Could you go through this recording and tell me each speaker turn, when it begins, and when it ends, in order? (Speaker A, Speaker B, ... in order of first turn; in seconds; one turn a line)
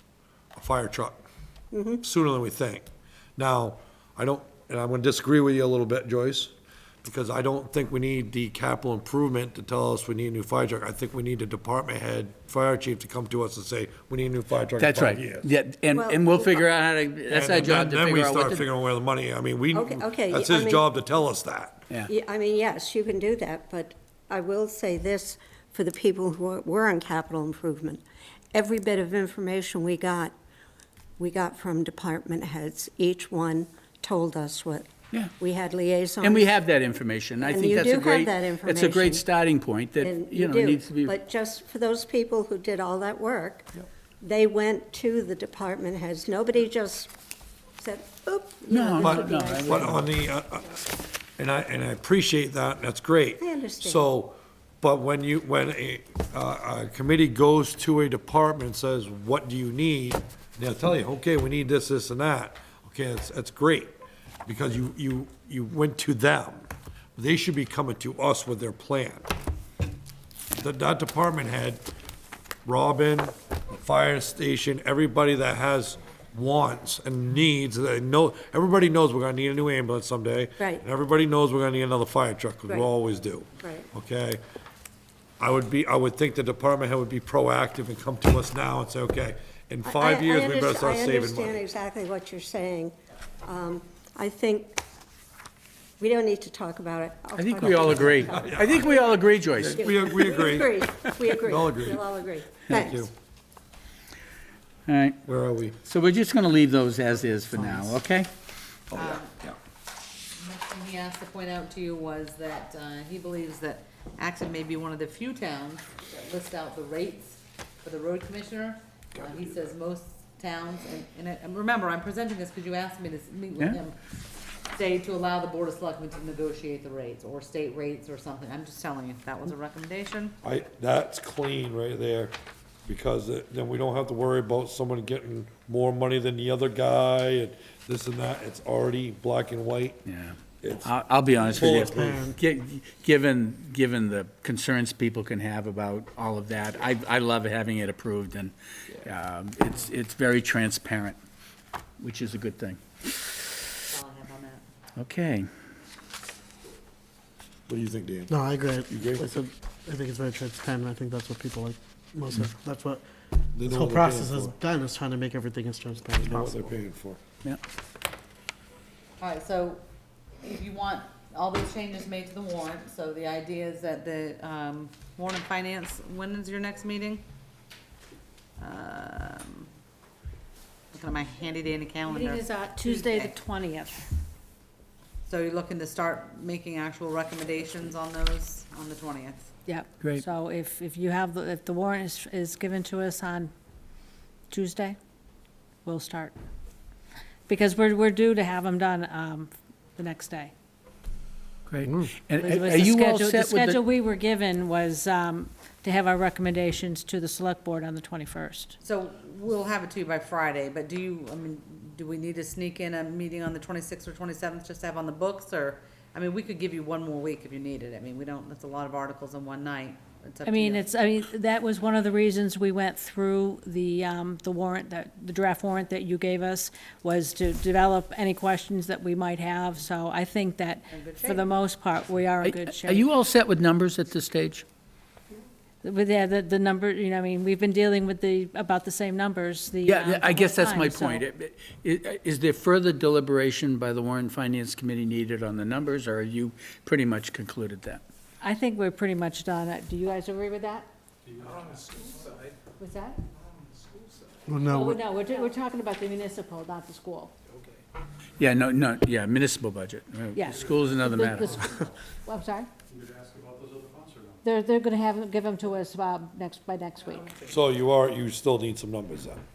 Speaker A: 0.6-1.2
Speaker B: 1.7-2.0
Speaker A: 2.0-2.8
Speaker A: 3.4-15.4
Speaker C: 14.8-18.7
Speaker B: 15.9-16.6
Speaker A: 17.3-21.9
Speaker B: 19.7-20.9
Speaker B: 22.1-30.3
Speaker B: 31.2-36.5
Speaker C: 36.2-41.1
Speaker B: 37.4-39.2
Speaker B: 40.0-47.1
Speaker B: 47.8-49.9
Speaker C: 48.7-50.0
Speaker A: 49.0-50.8
Speaker A: 51.4-63.9
Speaker B: 53.4-54.1
Speaker A: 64.5-69.3
Speaker A: 70.5-71.8
Speaker A: 72.6-84.4
Speaker B: 83.6-83.9
Speaker A: 85.4-91.6
Speaker B: 89.8-94.8
Speaker B: 96.0-103.1
Speaker C: 97.3-99.9
Speaker A: 97.6-98.8
Speaker A: 99.5-102.0
Speaker A: 102.7-103.1
Speaker C: 104.9-105.2
Speaker A: 105.2-105.8
Speaker C: 105.8-108.3
Speaker D: 107.5-108.0
Speaker A: 108.9-109.6
Speaker D: 108.9-109.3
Speaker D: 110.3-124.0
Speaker A: 119.2-119.5
Speaker D: 124.7-130.4
Speaker A: 130.4-132.3
Speaker A: 132.9-140.0
Speaker C: 140.1-151.2
Speaker A: 140.6-140.9
Speaker A: 141.5-142.2
Speaker E: 141.6-142.4
Speaker C: 152.0-152.8
Speaker D: 153.8-154.6
Speaker C: 155.0-155.5
Speaker A: 157.7-159.4
Speaker E: 158.3-163.0
Speaker A: 163.5-164.5
Speaker E: 163.6-166.7
Speaker A: 166.2-167.2
Speaker D: 169.2-169.8
Speaker D: 170.4-177.2
Speaker D: 178.6-179.7
Speaker D: 180.9-183.3
Speaker F: 182.0-184.1
Speaker D: 185.2-189.5
Speaker F: 189.7-193.5
Speaker C: 190.0-190.2
Speaker F: 194.5-194.9
Speaker F: 195.8-196.3
Speaker F: 197.5-200.5
Speaker C: 201.7-203.8
Speaker F: 202.3-208.8
Speaker D: 208.8-220.9
Speaker F: 220.4-233.1
Speaker D: 230.9-231.5
Speaker C: 232.4-234.6
Speaker F: 235.8-241.2
Speaker C: 239.8-248.0
Speaker F: 248.4-250.9
Speaker F: 252.8-253.2
Speaker E: 254.4-255.0
Speaker F: 254.6-257.3
Speaker C: 258.4-261.8
Speaker F: 260.3-262.7
Speaker F: 264.4-267.4
Speaker A: 267.4-269.4